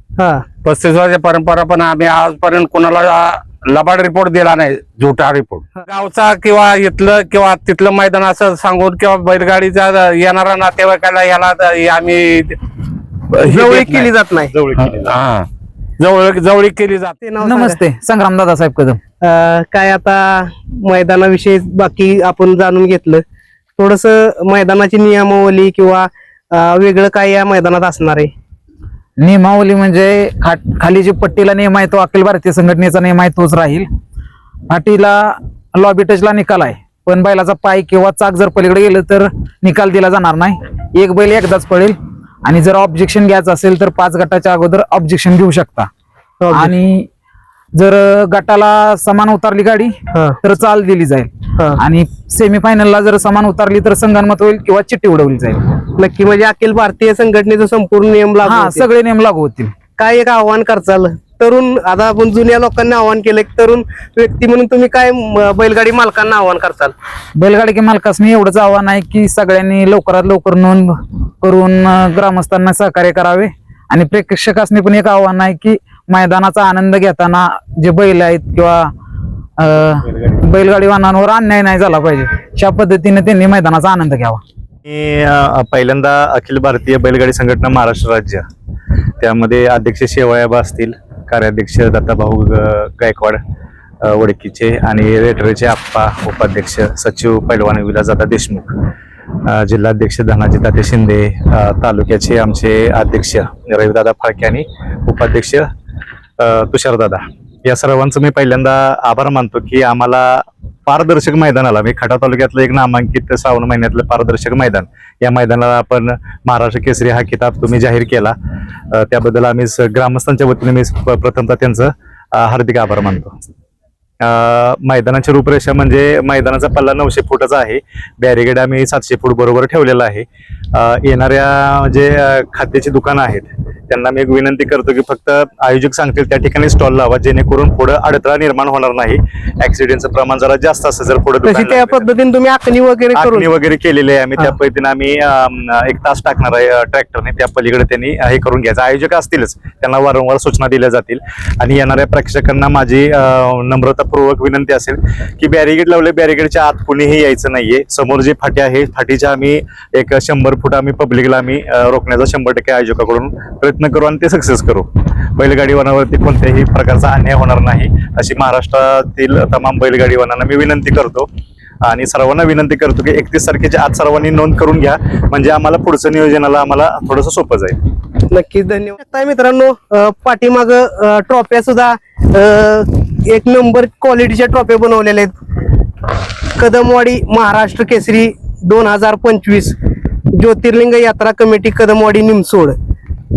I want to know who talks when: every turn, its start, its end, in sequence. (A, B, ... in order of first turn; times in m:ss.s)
0:00.2-0:00.4 A
0:00.6-0:12.6 B
0:13.3-0:14.1 B
0:13.4-0:14.5 A
0:14.5-0:15.2 C
0:14.8-0:15.5 B
0:16.0-0:17.2 B
0:17.2-0:17.8 A
0:17.4-0:19.0 D
0:19.2-0:23.2 A
0:23.8-0:28.3 A
0:29.2-0:33.9 D
0:34.7-0:45.9 D
0:46.4-0:46.7 A
0:46.5-0:47.1 D
0:47.8-0:55.7 D
0:50.1-0:50.4 A
0:56.0-0:58.8 A
0:58.4-0:59.7 D
1:00.0-1:06.9 A
1:07.4-1:18.9 D
1:19.6-1:24.4 D
1:24.8-1:28.4 C
1:29.2-1:33.4 C
1:34.0-1:38.7 C
1:39.4-1:45.7 C
1:46.4-1:58.3 C
1:58.9-2:03.3 C
2:04.2-2:22.1 C
2:21.4-2:23.5 A
2:23.1-2:51.3 C
2:51.8-2:57.8 C
2:58.3-3:05.3 A
3:06.6-3:09.8 A
3:10.3-3:12.8 A